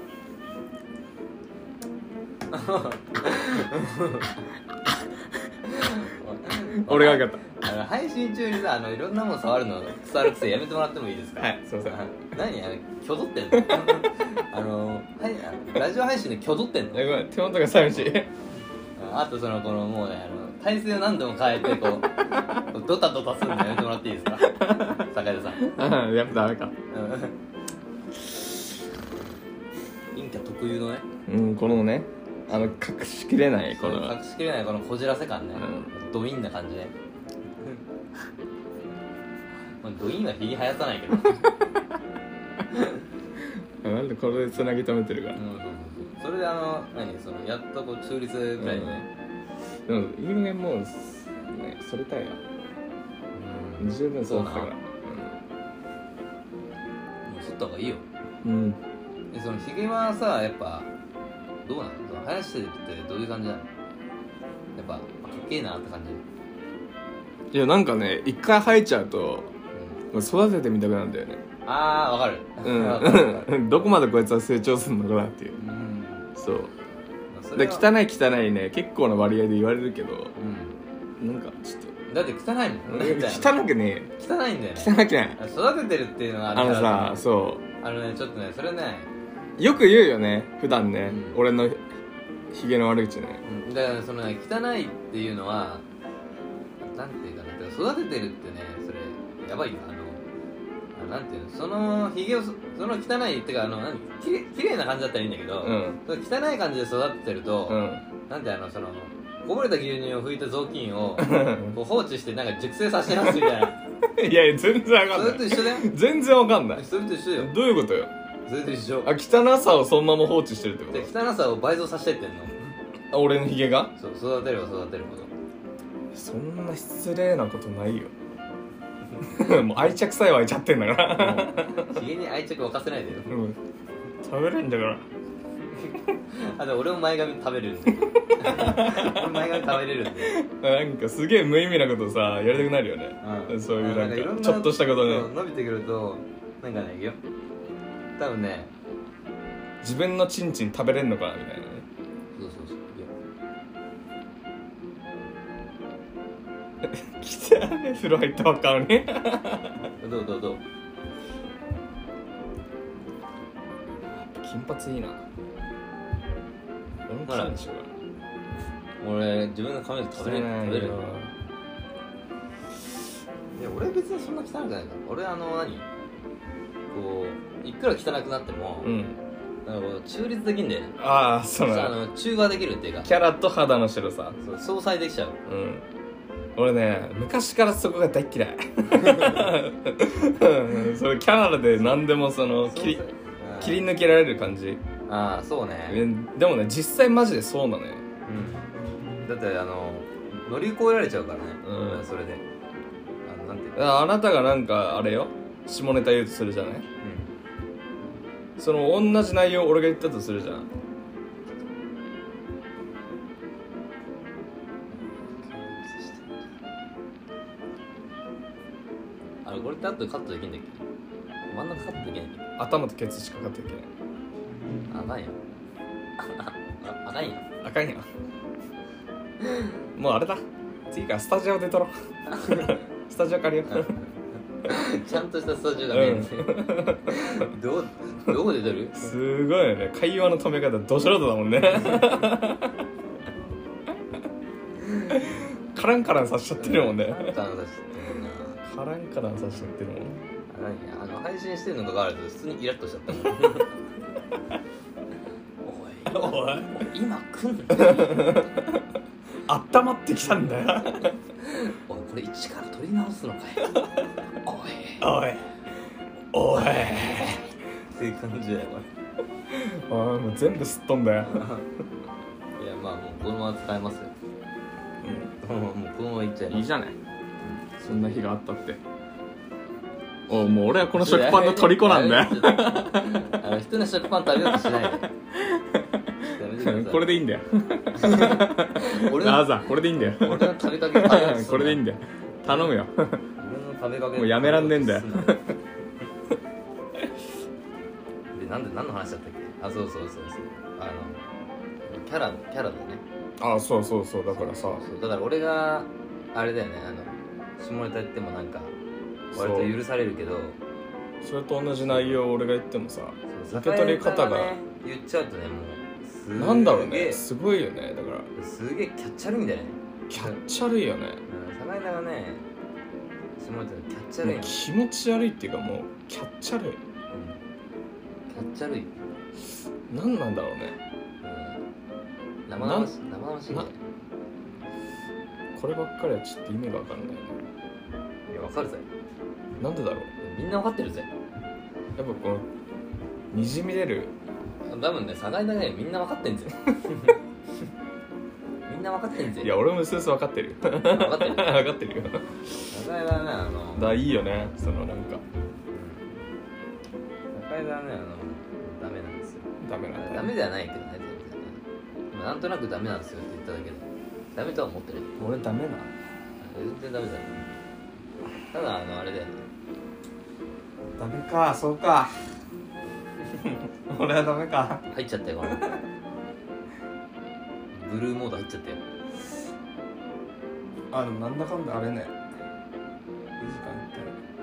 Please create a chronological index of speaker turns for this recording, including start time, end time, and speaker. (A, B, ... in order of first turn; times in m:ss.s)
0:02.5-0:04.4 A
0:05.7-0:17.1 A
0:06.8-0:07.6 B
0:11.4-0:12.0 B
0:13.5-0:14.0 B
0:16.9-0:18.3 B
0:19.0-0:22.1 A
0:22.7-0:25.6 A
0:24.4-0:25.1 B
0:25.6-0:26.7 B
0:26.9-0:27.4 A
0:30.1-0:31.0 A
0:31.3-0:34.2 B
0:32.5-0:32.8 A
0:33.7-0:36.9 A
0:35.6-0:35.9 B
0:39.8-0:41.5 A
0:43.8-0:45.4 B
0:45.3-0:49.1 A
0:48.6-0:49.0 B
0:49.9-0:52.4 B
0:53.3-0:54.7 A
0:53.8-0:55.4 B
0:57.2-0:58.0 A
0:58.4-0:58.8 B
0:59.3-1:00.9 A
1:01.6-1:03.7 A
1:04.8-1:06.2 A
1:07.5-1:09.5 B
1:10.1-1:11.4 B
1:11.6-1:13.6 A
1:12.6-1:15.6 B
1:15.6-1:16.3 A
1:16.4-1:16.7 B
1:17.3-1:17.9 A
1:17.6-1:20.3 B
1:20.4-1:20.8 A
1:21.2-1:21.9 B
1:22.1-1:23.6 A
1:22.9-1:24.1 B
1:24.2-1:27.2 A
1:24.8-1:25.4 B
1:26.5-1:27.6 B
1:27.8-1:29.1 A
1:29.6-1:31.8 B
1:31.0-1:31.4 A
1:32.5-1:33.4 B
1:33.4-1:35.8 A
1:36.8-1:40.2 A
1:41.0-1:53.8 A
1:45.6-1:46.0 B
1:47.7-1:48.0 B
1:51.2-1:51.8 B
1:54.2-1:56.8 B
1:55.1-1:55.9 A
1:56.7-1:57.5 A
1:57.4-1:58.1 B
1:58.5-1:59.1 A
1:59.0-2:01.1 B
2:00.9-2:02.5 A
2:03.1-2:03.9 B
2:04.0-2:05.3 A
2:06.1-2:08.1 B
2:09.2-2:12.0 B
2:11.1-2:13.4 A
2:13.3-2:13.6 B
2:14.2-2:15.0 B
2:15.7-2:20.4 A
2:18.3-2:25.3 B
2:23.2-2:27.2 A
2:28.2-2:28.7 A
2:29.8-2:31.8 B
2:32.4-2:33.1 A
2:36.8-2:39.9 B
2:40.0-2:40.6 A
2:44.1-2:45.2 B
2:47.1-2:47.9 B
2:47.3-2:47.6 A
2:49.0-2:51.0 A
2:50.2-2:51.3 B
2:53.6-2:55.9 A
2:56.9-2:58.9 A
2:58.8-2:59.2 B
2:59.6-3:01.0 A
3:01.0-3:02.0 B
3:01.6-3:03.1 A
3:03.0-3:04.4 B
3:04.4-3:05.4 A
3:05.5-3:05.8 B
3:06.6-3:13.0 B
3:09.0-3:09.4 A
3:12.6-3:13.8 A
3:13.6-3:14.8 B
3:15.1-3:16.0 A
3:15.9-3:18.0 B
3:18.3-3:18.6 A
3:19.2-3:22.4 A
3:21.6-3:22.1 B
3:23.2-3:23.9 A
3:23.8-3:26.8 B
3:27.0-3:27.3 A
3:28.6-3:30.7 B
3:34.9-3:36.4 A
3:39.4-3:40.8 A
3:41.5-3:42.4 A
3:42.6-3:43.9 B
3:44.9-3:45.4 A
3:46.2-3:47.5 A
3:47.6-3:48.1 B
3:50.0-3:53.9 B
3:52.3-3:52.6 A
3:53.7-3:54.0 A
3:54.6-3:59.1 A
3:55.9-3:57.5 B
3:58.9-4:02.8 B
4:05.0-4:07.3 B
4:06.6-4:08.6 A
4:08.6-4:10.2 B
4:10.5-4:13.8 A
4:15.6-4:18.4 A
4:16.1-4:16.8 B
4:17.7-4:18.5 B
4:19.5-4:21.2 B
4:21.4-4:23.8 A
4:24.4-4:25.0 A
4:25.0-4:25.4 B
4:26.3-4:27.4 B
4:26.5-4:28.9 A
4:29.5-4:31.5 B
4:31.2-4:31.6 A
4:32.6-4:34.1 A
4:35.0-4:35.3 B
4:35.4-4:36.7 A
4:36.5-4:37.0 B
4:37.4-4:38.2 A
4:37.8-4:38.8 B
4:40.3-4:43.3 B
4:40.3-4:45.1 A
4:44.6-4:53.2 B
4:46.3-4:47.1 A
4:48.0-4:49.6 A
4:50.1-4:51.8 A
4:52.5-4:52.7 A
4:53.4-4:55.4 A
4:54.2-4:55.6 B
4:58.3-5:01.2 A
5:01.9-5:03.0 A
5:03.4-5:04.8 B
5:04.3-5:08.7 A
5:09.3-5:09.7 B
5:09.3-5:10.6 A
5:11.2-5:14.6 B
5:11.8-5:12.2 A
5:13.3-5:17.2 A
5:16.4-5:18.3 B
5:18.4-5:20.4 A
5:20.1-5:21.2 B
5:21.3-5:22.4 A
5:23.4-5:24.6 A
5:24.2-5:26.8 B
5:27.1-5:27.4 A
5:28.3-5:28.9 A
5:29.9-5:30.8 B
5:31.2-5:31.6 A
5:32.5-5:33.8 A
5:32.6-5:32.9 B
5:35.6-5:37.4 B
5:38.3-5:38.8 A
5:39.6-5:40.1 B
5:40.2-5:41.1 A
5:42.0-5:42.5 B
5:43.3-5:44.1 B
5:44.7-5:47.2 A
5:48.7-5:49.6 A
5:49.4-5:52.4 B
5:50.8-5:51.6 A
5:52.7-5:53.9 A
5:53.8-5:55.2 B
5:55.7-5:56.1 A
5:57.3-6:01.6 A
5:59.6-6:00.3 B
6:02.1-6:05.2 A
6:05.2-6:05.9 B
6:06.4-6:07.4 A
6:08.5-6:09.4 A
6:11.0-6:12.2 B
6:13.9-6:14.8 B
6:14.9-6:15.7 A
6:17.7-6:18.8 A
6:20.9-6:22.2 B
6:23.4-6:24.2 B